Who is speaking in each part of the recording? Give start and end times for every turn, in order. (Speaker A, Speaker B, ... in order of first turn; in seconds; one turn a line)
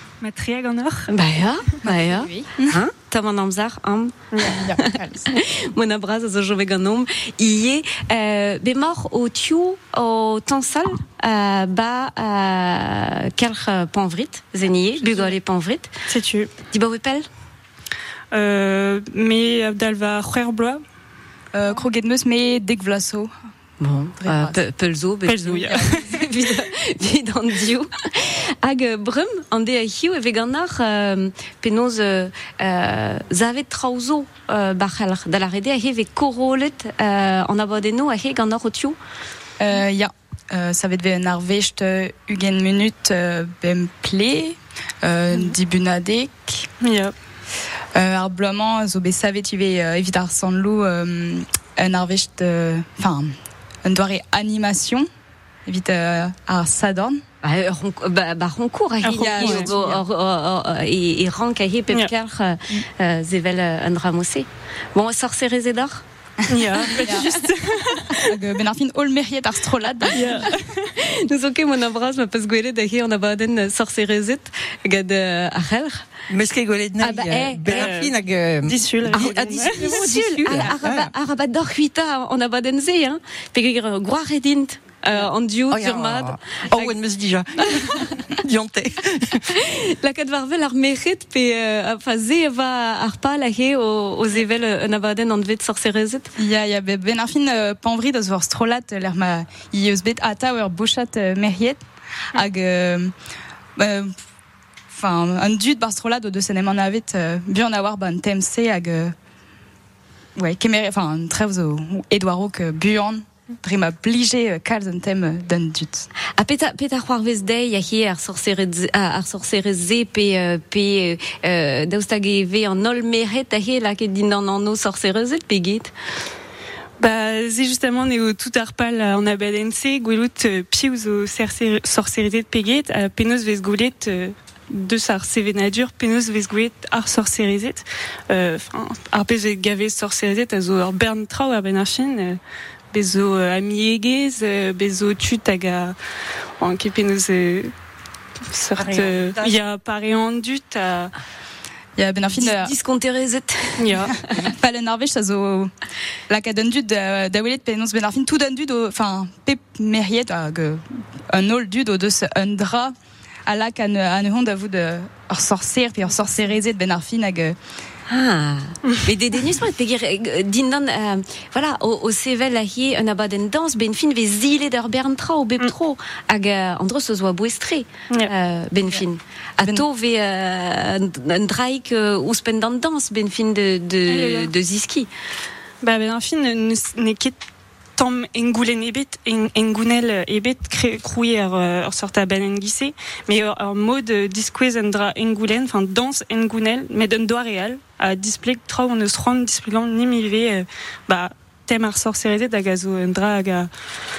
Speaker A: 0.2-1.1
Speaker B: 1.1-15.9
Speaker C: 1.8-2.8
Speaker A: 4.3-4.7
Speaker C: 4.4-5.3
Speaker A: 15.0-15.3
Speaker A: 16.1-16.5
Speaker B: 16.7-17.2
Speaker A: 18.3-20.8
Speaker C: 21.5-23.3
Speaker B: 23.8-39.0
Speaker C: 24.2-24.6
Speaker A: 25.2-26.2
Speaker C: 39.6-46.6
Speaker A: 46.8-47.1
Speaker C: 48.0-53.3
Speaker C: 53.8-55.0
Speaker C: 55.7-57.2
Speaker B: 57.4-66.0
Speaker A: 59.0-59.7
Speaker C: 59.4-60.0
Speaker A: 66.5-68.2
Speaker C: 66.6-70.5
Speaker B: 66.9-67.4
Speaker A: 70.1-70.9
Speaker B: 70.3-76.1
Speaker D: 76.3-81.1
Speaker C: 77.0-77.9
Speaker A: 77.7-80.0
Speaker B: 79.1-86.9
Speaker D: 85.7-89.5
Speaker B: 87.8-88.1
Speaker B: 89.5-96.3
Speaker C: 96.4-101.8
Speaker C: 102.3-103.1
Speaker C: 103.8-104.1
Speaker C: 104.9-109.1
Speaker C: 110.3-116.1
Speaker B: 116.3-125.9
Speaker A: 127.0-142.4
Speaker A: 142.9-145.9
Speaker A: 146.6-147.7
Speaker A: 148.4-151.1
Speaker D: 148.8-149.6
Speaker C: 152.0-152.8
Speaker B: 152.3-154.4
Speaker A: 153.8-154.1
Speaker C: 154.4-155.7
Speaker C: 156.3-162.9
Speaker C: 163.5-167.6
Speaker B: 168.1-185.1
Speaker C: 179.6-179.8
Speaker A: 184.1-184.5
Speaker A: 185.8-187.4
Speaker A: 187.9-203.7